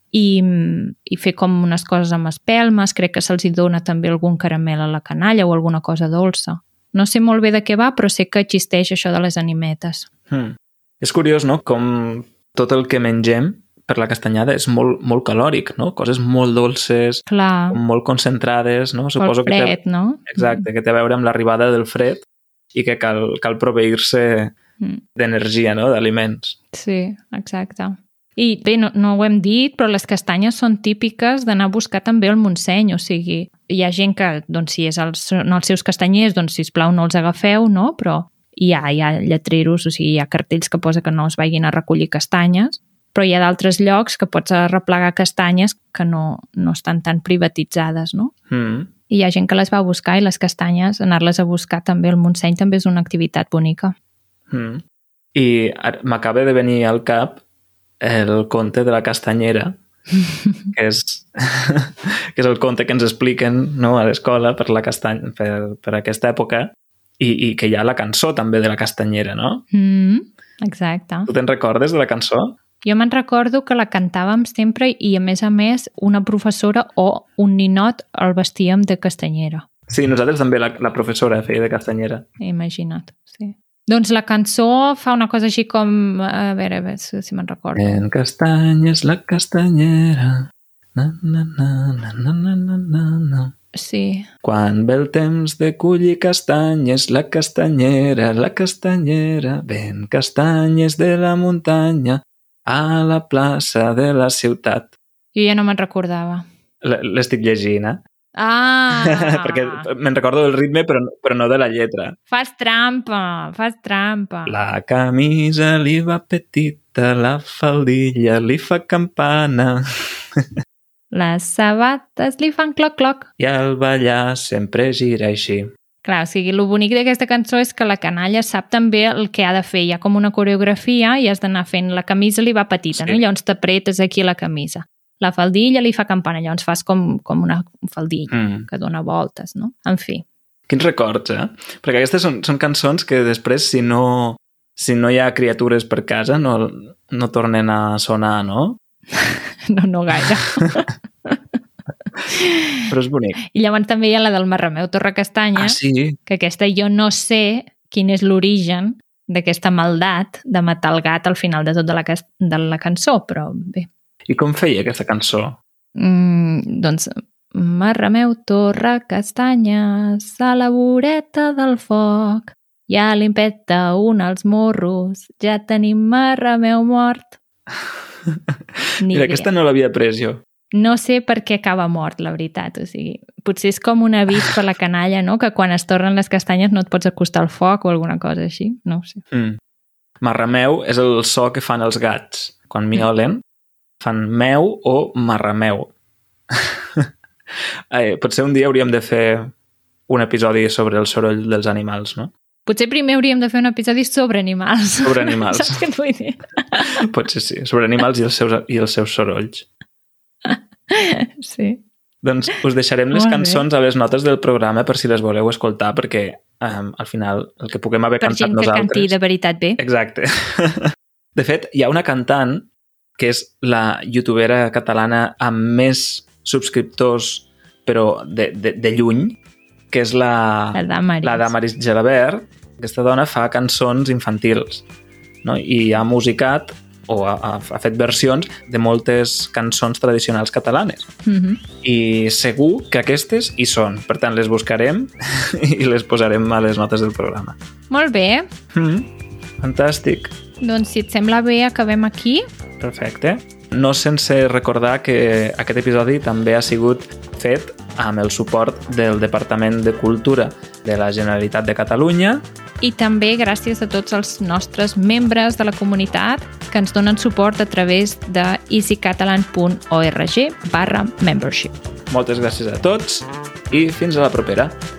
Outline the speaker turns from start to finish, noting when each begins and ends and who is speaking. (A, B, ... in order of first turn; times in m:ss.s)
0:00.1-0:10.1 A
0:10.3-0:24.5 B
0:17.3-0:17.8 A
0:19.2-0:20.6 A
0:25.2-0:26.6 B
0:26.7-0:48.3 A
0:48.5-0:48.9 B
0:49.1-0:53.9 A
0:54.5-0:54.8 B
0:55.3-0:57.4 B
0:58.0-0:59.7 B
1:00.2-1:00.6 A
1:00.7-1:09.6 B
1:09.7-1:11.3 A
1:11.3-1:12.5 B
1:12.8-1:19.6 A
1:19.9-1:22.2 B
1:22.4-1:28.0 A
1:27.8-1:33.5 B
1:33.7-1:34.2 A
1:34.4-1:44.9 B
1:45.3-1:46.4 A
1:46.8-1:48.0 B
1:48.4-1:49.8 A
1:48.9-1:52.2 B
1:52.3-1:54.6 A
1:54.4-1:59.8 B
2:01.1-2:03.3 A
2:03.4-2:05.7 B
2:06.0-2:20.2 A
2:12.9-2:13.2 B
2:18.3-2:18.7 B
2:20.7-2:28.8 B
2:29.1-2:31.4 A
2:32.2-2:32.7 A
2:32.9-2:33.4 B
2:33.5-2:43.9 A
2:35.5-2:36.2 B
2:44.3-2:45.6 B
2:46.0-2:57.4 A
2:58.3-2:58.6 B
2:59.0-2:59.5 A
2:59.1-3:00.4 B
3:00.7-3:09.2 A
3:09.3-3:09.6 B
3:10.2-3:13.4 B
3:14.0-3:15.9 B
3:16.5-3:17.1 B
3:17.9-3:19.5 B
3:20.1-3:22.3 B
3:22.6-3:26.9 A
3:25.0-3:25.8 B
3:27.0-3:29.6 B
3:30.4-3:31.8 A
3:32.2-3:39.1 B
3:33.1-3:33.6 A
3:38.2-3:39.8 A
3:39.8-3:49.4 B
3:49.9-3:54.9 B
3:50.7-3:51.5 A
3:55.4-4:01.1 B
4:01.2-4:01.6 A
4:01.8-4:07.6 B
4:07.9-4:08.4 A
4:08.7-4:10.3 B
4:10.6-4:12.4 A
4:12.8-4:22.4 B
4:22.8-4:31.7 A
4:32.1-4:34.7 B